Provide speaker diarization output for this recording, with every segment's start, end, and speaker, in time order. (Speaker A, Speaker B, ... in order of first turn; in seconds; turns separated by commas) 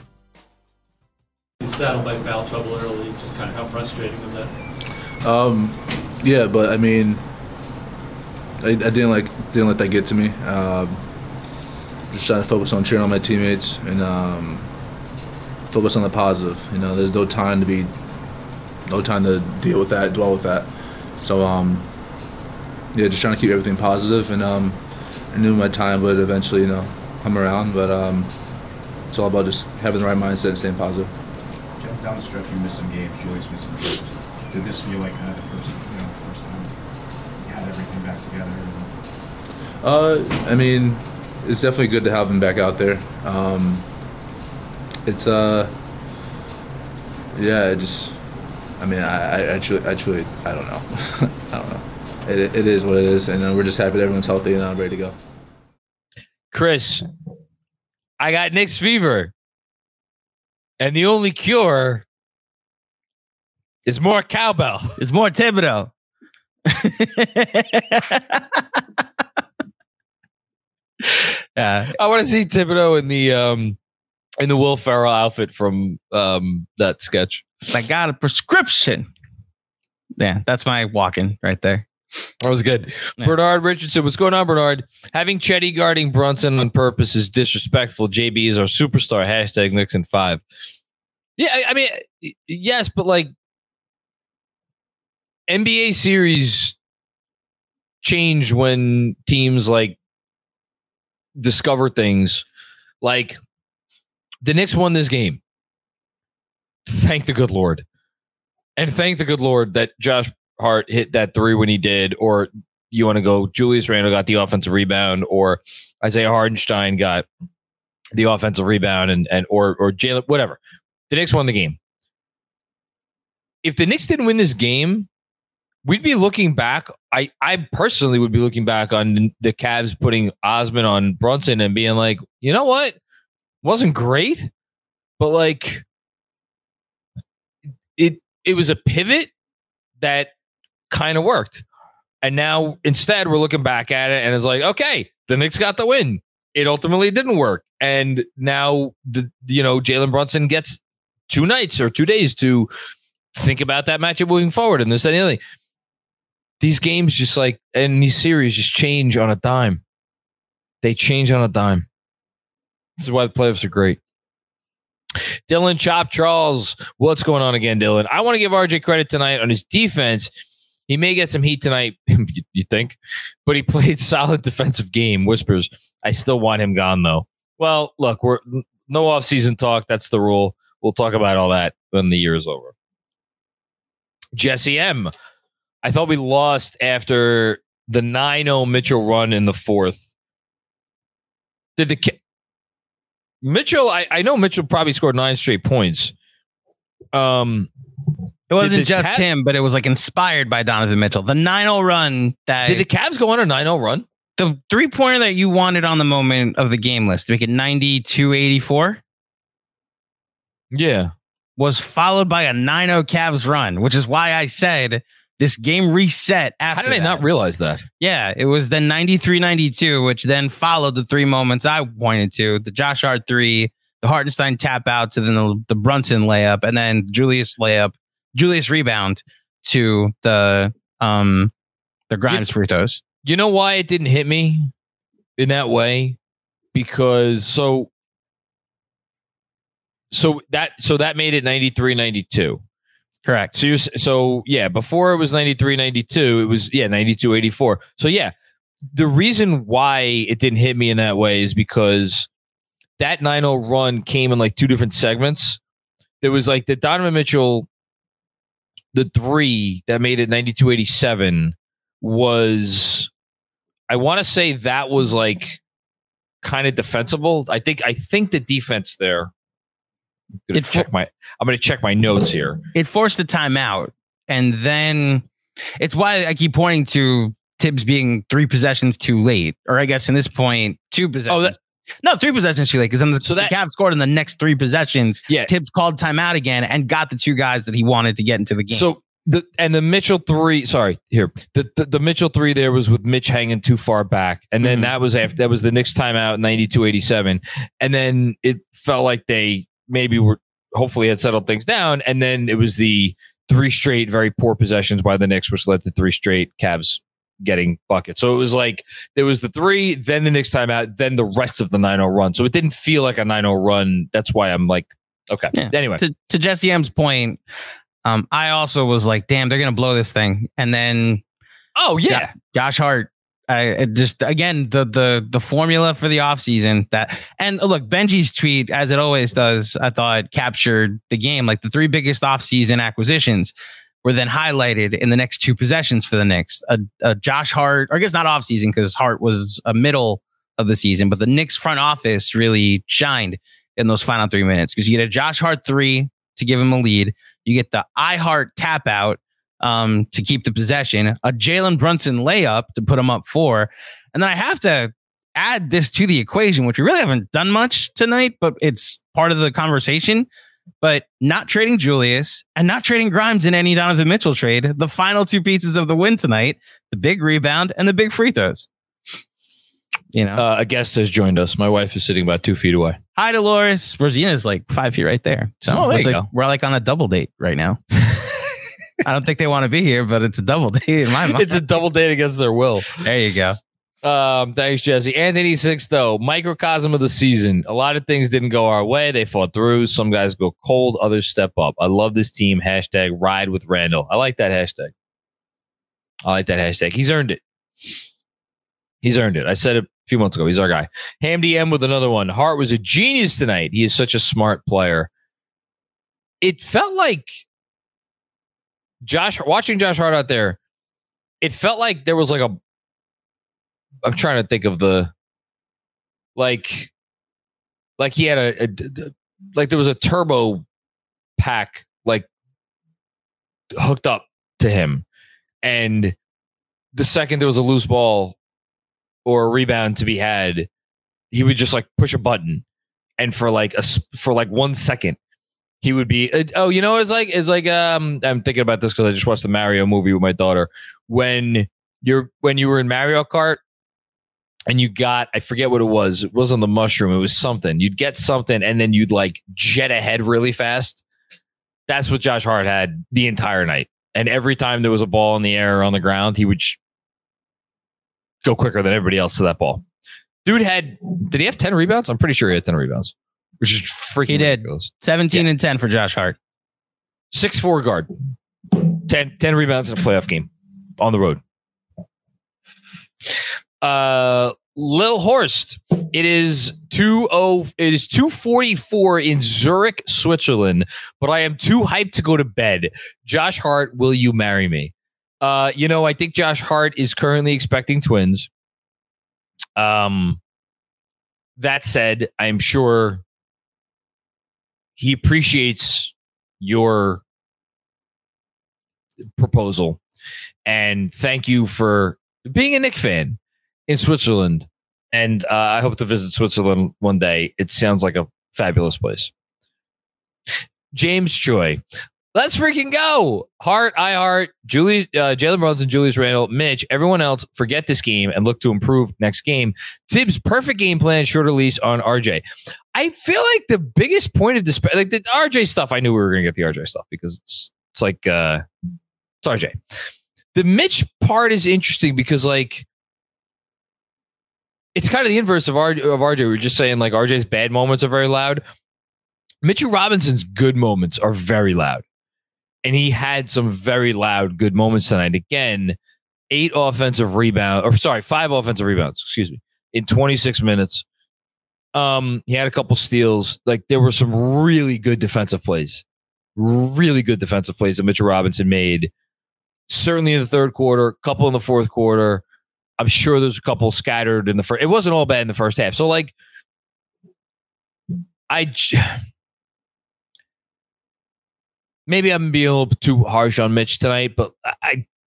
Speaker A: 1.6-4.5, Speaker B: 5.2-7.2, Speaker B: 8.6-11.0, Speaker B: 12.1-14.7, Speaker B: 15.7-17.9, Speaker B: 18.9-21.9, Speaker B: 22.9-24.8, Speaker B: 25.3-28.3, Speaker B: 29.1-31.1, Speaker C: 31.8-36.7, Speaker C: 37.4-38.9, Speaker B: 39.8-43.9, Speaker B: 45.0-45.7, Speaker B: 47.4-48.2, Speaker B: 48.8-55.2, Speaker D: 56.5-57.1, Speaker D: 58.2-59.3, Speaker D: 60.8-62.0, Speaker D: 63.9-65.0, Speaker E: 65.0-65.9, Speaker E: 66.7-68.8, Speaker E: 71.2-71.9, Speaker D: 72.0-73.8, Speaker D: 74.4-77.5, Speaker E: 77.7-79.1, Speaker E: 80.2-81.9, Speaker D: 82.4-90.4, Speaker D: 91.4-93.3, Speaker D: 95.5-96.8, Speaker D: 98.0-100.0, Speaker D: 101.4-102.5, Speaker D: 103.0-103.4, Speaker D: 104.4-105.4, Speaker D: 106.9-107.8, Speaker D: 108.8-117.3, Speaker D: 118.1-120.6, Speaker D: 121.1-121.8, Speaker D: 123.6-125.1, Speaker D: 125.8-133.0, Speaker D: 133.6-134.5, Speaker D: 135.2-135.8, Speaker D: 138.0-139.3, Speaker D: 140.0-140.3, Speaker D: 140.9-141.6, Speaker D: 142.2-152.7, Speaker D: 153.4-155.4, Speaker D: 156.6-159.8, Speaker D: 160.8-161.9, Speaker D: 163.0-164.0, Speaker D: 165.5-170.3, Speaker D: 170.9-182.7, Speaker D: 184.3-185.1, Speaker D: 185.8-190.0, Speaker D: 191.8-192.2, Speaker D: 193.4-196.1, Speaker D: 197.1-197.7, Speaker E: 198.5-202.8, Speaker D: 198.6-199.2, Speaker D: 202.6-204.1, Speaker E: 204.4-209.0, Speaker D: 210.7-211.1, Speaker E: 211.6-217.2, Speaker D: 216.7-217.9, Speaker E: 218.0-231.5, Speaker E: 232.1-233.0, Speaker D: 233.2-234.7, Speaker D: 235.4-236.2, Speaker D: 236.7-237.9, Speaker D: 240.1-242.6, Speaker E: 243.3-243.5, Speaker D: 243.5-248.3, Speaker D: 248.9-252.3, Speaker D: 253.0-255.6, Speaker D: 256.2-257.7, Speaker D: 258.9-263.1, Speaker D: 263.9-265.6, Speaker D: 266.4-269.3, Speaker D: 270.5-272.6, Speaker E: 270.5-270.9, Speaker E: 272.8-275.3, Speaker E: 275.8-288.9, Speaker D: 281.3-281.6, Speaker D: 283.2-283.5, Speaker D: 288.7-316.0, Speaker E: 294.6-294.9, Speaker E: 315.5-317.4, Speaker E: 318.1-321.2, Speaker D: 321.8-322.3, Speaker E: 322.1-360.3, Speaker E: 360.8-368.7, Speaker E: 370.1-370.4, Speaker D: 370.4-373.0, Speaker E: 373.2-377.8, Speaker D: 375.7-376.3, Speaker E: 379.0-381.6, Speaker D: 381.3-383.0, Speaker E: 383.0-383.6, Speaker D: 384.0-394.9, Speaker D: 396.3-397.4, Speaker D: 399.0-405.1, Speaker D: 406.4-407.4, Speaker D: 409.1-410.6, Speaker D: 411.4-412.6, Speaker D: 414.0-415.1, Speaker D: 416.4-416.9, Speaker D: 418.0-420.6, Speaker D: 421.4-422.3, Speaker D: 423.8-425.0, Speaker D: 425.6-426.2, Speaker D: 426.9-428.4, Speaker D: 429.2-430.7, Speaker D: 431.3-432.6, Speaker D: 433.2-435.2, Speaker D: 435.8-443.6, Speaker D: 444.7-451.0, Speaker D: 451.9-456.8, Speaker D: 458.4-459.8, Speaker D: 460.4-465.4, Speaker E: 464.3-466.4, Speaker D: 467.3-468.1, Speaker D: 468.7-471.4, Speaker D: 473.8-488.5, Speaker D: 489.8-490.4, Speaker D: 491.6-493.2, Speaker D: 495.0-497.2, Speaker D: 499.4-500.0, Speaker D: 500.7-503.4, Speaker D: 503.9-509.3, Speaker D: 510.9-511.8, Speaker D: 512.3-522.4, Speaker D: 523.0-528.6, Speaker D: 529.4-529.8, Speaker D: 530.5-532.9, Speaker D: 535.0-538.6, Speaker D: 539.6-542.0, Speaker D: 542.8-546.0, Speaker D: 546.5-551.0, Speaker D: 552.0-556.0, Speaker D: 556.6-559.1, Speaker D: 559.9-562.4, Speaker D: 563.0-566.3, Speaker D: 568.5-569.2, Speaker D: 572.1-575.0